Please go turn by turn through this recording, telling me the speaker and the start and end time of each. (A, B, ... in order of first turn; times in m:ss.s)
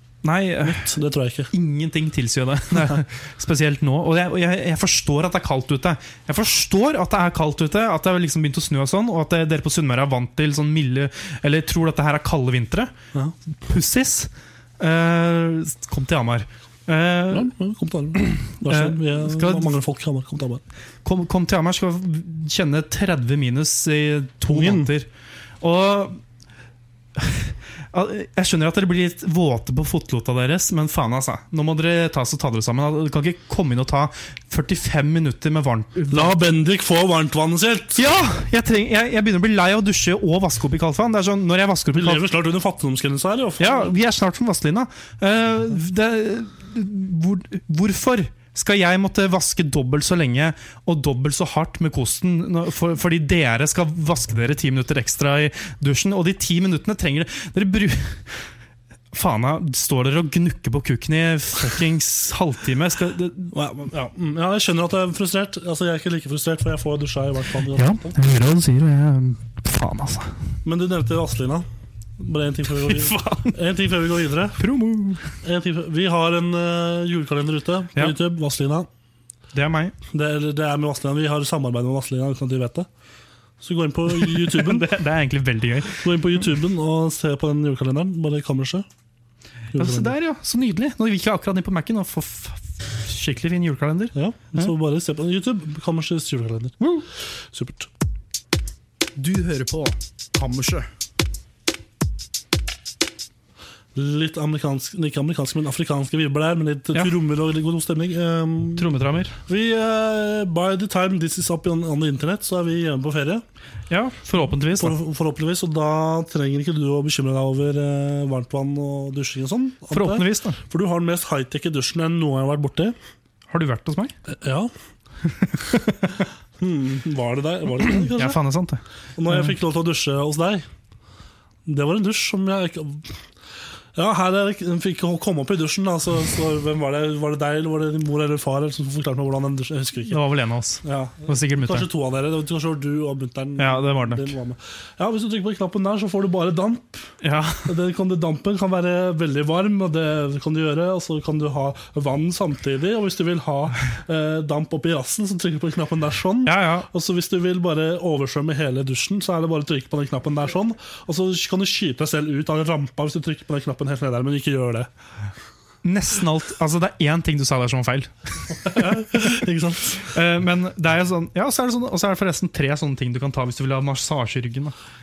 0:00.2-0:00.9 A
0:00.6-0:01.5 B
0:01.5-0:12.9 A
0:13.5-0:17.5 A
0:17.3-0:20.6 B
0:18.2-0:19.8 A
0:21.0-0:25.1 A
0:24.5-0:24.9 B
0:25.6-0:26.2 A
0:27.2-0:36.4 A
0:36.1-0:38.0 B
0:38.0-0:42.2 A
0:41.9-0:43.9 B
0:43.6-0:58.5 A
0:59.1-1:03.5 A
1:03.5-1:08.2 B
1:07.7-1:10.4 A
1:10.6-1:11.6 B
1:12.2-1:14.6 B
1:12.8-1:13.6 A
1:14.6-1:15.3 A
1:15.4-1:18.9 B
1:19.5-1:20.0 A
1:20.1-1:22.9 B
1:23.6-1:24.9 B
1:24.1-1:26.2 A
1:25.9-1:28.9 B
1:29.7-1:30.1 B
1:29.7-1:34.7 A
1:34.1-1:36.8 B
1:37.5-1:37.9 B
1:39.2-1:40.8 A
1:43.9-1:48.9 B
1:48.8-1:49.4 A
1:49.5-1:53.4 B
1:53.9-1:55.0 A
1:54.8-2:03.0 B
1:59.9-2:00.6 A
2:03.5-2:04.1 A
2:04.3-2:04.7 B
2:05.2-2:06.2 A
2:06.6-2:08.4 B
2:08.1-2:09.5 A
2:09.2-2:10.6 B
2:11.6-2:13.1 B
2:13.9-2:20.2 B
2:20.0-2:21.9 A
2:20.8-2:27.1 B
2:23.6-2:24.3 A
2:27.2-2:27.7 A
2:27.6-2:44.9 B
2:36.4-2:36.9 A
2:45.8-2:49.3 A
2:48.7-2:50.0 B
2:50.0-2:54.7 A